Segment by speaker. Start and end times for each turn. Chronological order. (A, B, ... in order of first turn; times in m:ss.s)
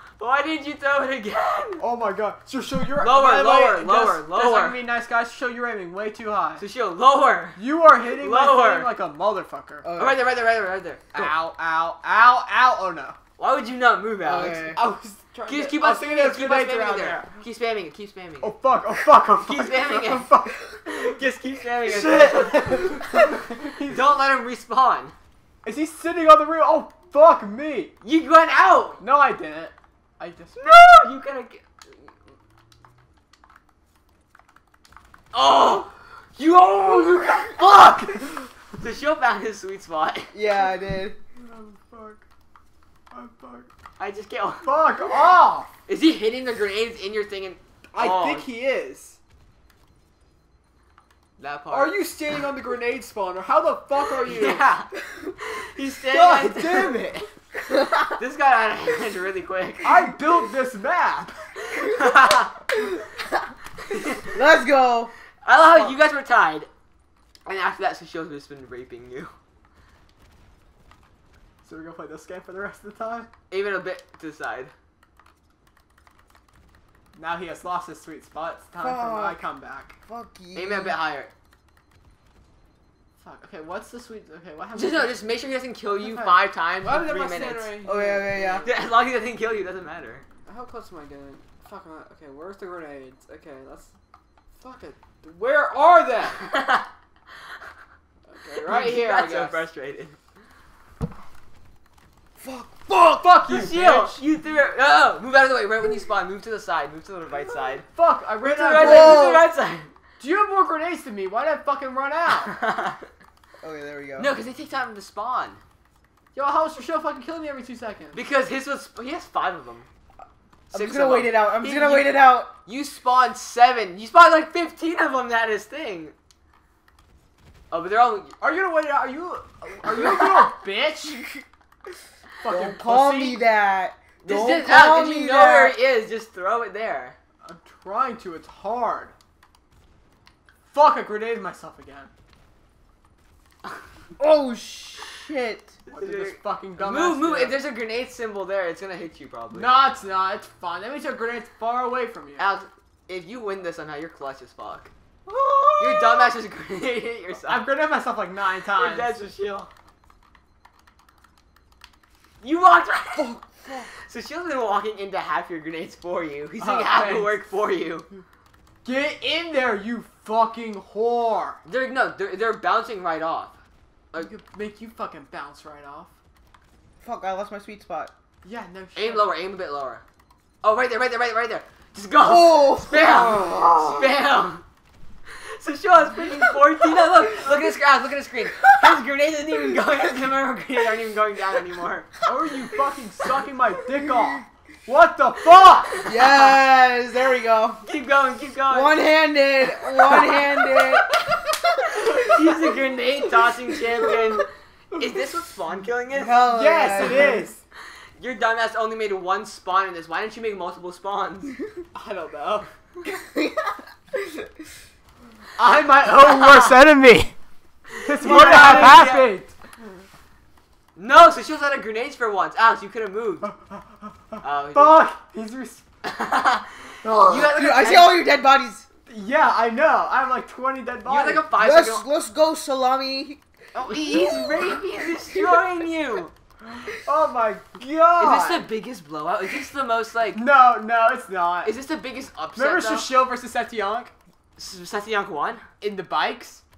0:00.2-0:01.8 A
0:01.8-0:06.6 B
0:03.0-0:04.8 A
0:06.6-0:08.9 A
0:07.6-0:09.9 B
0:09.8-0:10.2 C
0:09.9-0:11.3 A
0:11.1-0:13.2 B
0:13.4-0:14.8 A
0:14.2-0:14.8 C
0:14.5-0:17.3 B
0:15.5-0:18.5 A
0:18.4-0:20.8 B
0:19.3-0:23.1 A
0:21.9-0:24.2 B
0:23.8-0:25.2 A
0:25.6-0:27.9 B
0:28.0-0:29.0 A
0:29.0-0:30.6 B
0:30.6-0:32.1 A
0:35.3-0:38.2 A
0:38.1-0:38.4 B
0:38.7-0:40.4 A
0:40.3-0:41.2 C
0:41.4-0:42.2 B
0:43.1-0:43.7 B
0:44.0-0:44.8 A
0:44.6-0:45.7 B
0:45.9-0:48.5 A
0:47.9-0:49.2 B
0:51.4-0:52.0 A
0:51.7-0:54.7 B
0:54.2-0:57.0 A
0:56.1-0:57.3 B
0:58.1-1:00.1 A
0:59.8-1:01.3 B
1:01.7-1:02.5 A
1:03.9-1:04.2 A
1:04.3-1:05.1 C
1:05.4-1:06.7 A
1:07.5-1:09.3 A
1:11.6-1:13.3 B
1:13.5-1:14.7 A
1:17.1-1:20.0 B
1:18.8-1:19.4 C
1:20.1-1:21.0 C
1:20.5-1:21.3 A
1:23.2-1:28.7 B
1:24.7-1:27.8 A
1:27.8-1:28.7 C
1:28.6-1:30.2 A
1:30.5-1:33.9 B
1:34.6-1:36.5 B
1:36.4-1:36.9 A
1:38.3-1:39.7 B
1:38.6-1:40.2 A
1:42.4-1:43.3 C
1:43.2-1:44.2 B
1:43.4-1:47.9 A
1:48.0-1:49.5 B
1:48.4-1:49.9 A
1:48.7-1:49.5 C
1:50.2-1:52.6 B
1:52.5-1:53.1 A
1:53.6-1:54.3 C
1:54.2-1:55.6 A
1:56.4-1:58.2 B
1:58.1-1:59.9 A
2:00.7-2:02.6 C
2:00.7-2:06.2 A
2:07.7-2:08.4 A
2:08.4-2:11.3 B
2:12.4-2:13.4 B
2:12.5-2:15.8 C
2:14.2-2:17.2 A
2:17.4-2:19.1 B
2:20.7-2:22.1 B
2:24.2-2:25.8 C
2:25.9-2:29.8 A
2:25.9-2:27.6 B
2:29.5-2:32.5 B
2:32.4-2:34.9 A
2:35.3-2:36.3 C
2:35.8-2:37.7 A
2:37.4-2:39.2 B
2:38.8-2:39.7 A
2:42.4-2:43.4 A
2:43.1-2:43.9 C
2:44.0-2:48.1 A
2:46.6-2:47.4 B
2:48.8-2:51.6 B
2:51.6-2:53.6 A
2:54.2-2:56.1 B
2:57.0-2:58.1 C
2:58.4-2:59.3 B
2:59.0-3:00.0 A
3:00.6-3:04.6 A
3:02.2-3:04.2 C
3:05.3-3:12.2 A
3:12.2-3:16.1 B
3:16.0-3:17.8 C
3:17.8-3:19.0 A
3:18.7-3:22.1 C
3:20.0-3:20.4 A
3:21.9-3:26.4 A
3:26.1-3:27.5 C
3:26.4-3:27.6 B
3:28.2-3:31.6 A
3:31.9-3:32.7 B
3:33.0-3:34.5 C
3:35.6-3:37.4 B
3:38.0-3:39.6 B
3:38.1-3:39.3 A
3:41.0-3:43.5 A
3:43.4-3:45.8 B
3:44.4-3:45.0 A
3:46.0-3:48.2 A
3:47.0-3:47.5 B
3:47.4-3:48.9 C
3:49.1-3:51.6 B
3:51.0-3:52.1 A
3:51.6-3:53.4 C
3:53.8-3:56.3 A
3:53.9-3:54.7 B
3:54.4-3:55.6 C
3:56.6-3:58.7 B
3:58.2-4:00.4 A
4:00.4-4:01.8 B
4:01.6-4:03.1 A
4:02.6-4:04.1 B
4:04.6-4:05.6 A
4:05.8-4:06.6 B